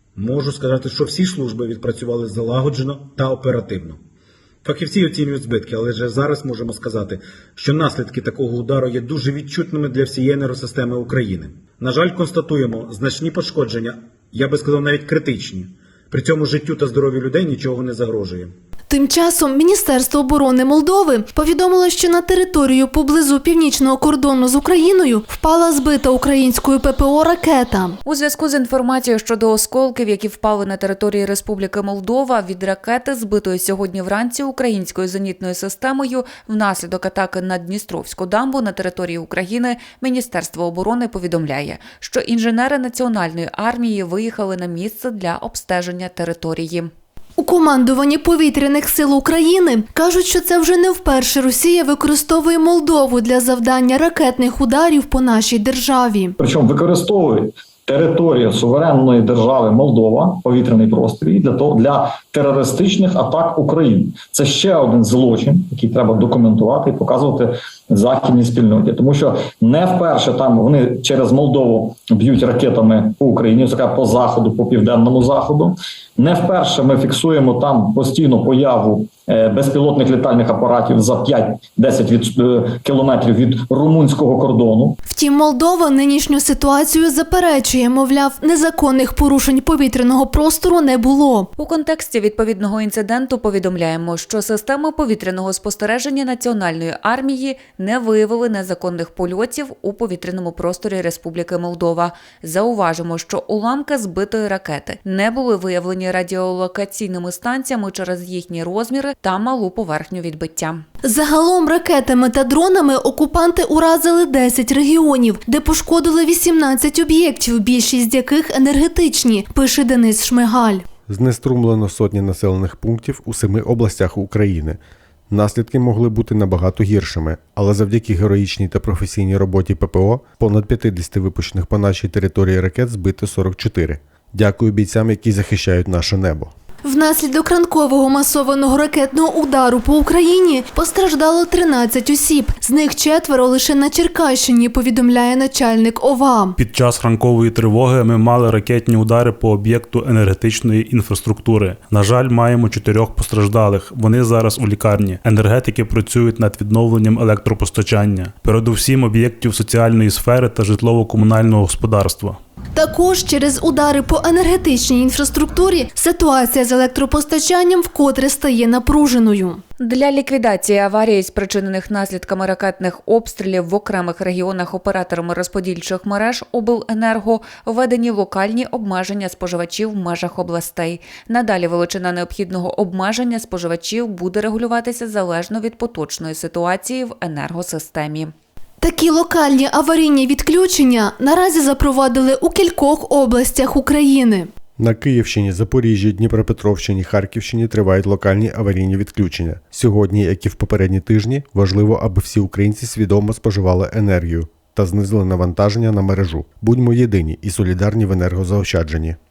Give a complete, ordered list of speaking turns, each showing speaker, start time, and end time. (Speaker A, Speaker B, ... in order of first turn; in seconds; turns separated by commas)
Speaker A: 0.1-4.0, Speaker A: 4.6-18.5, Speaker B: 18.9-28.0, Speaker C: 28.0-46.9, Speaker B: 47.4-56.3, Speaker D: 56.4-85.0, Speaker B: 85.1-91.5, Speaker C: 91.6-110.8, Speaker B: 111.0-120.8, Speaker E: 121.1-124.8, Speaker E: 125.3-136.5, Speaker B: 136.8-146.6, Speaker F: 146.6-162.4, Speaker B: 162.7-169.6, Speaker C: 169.8-188.3, Speaker B: 188.8-194.5, Speaker E: 194.8-209.2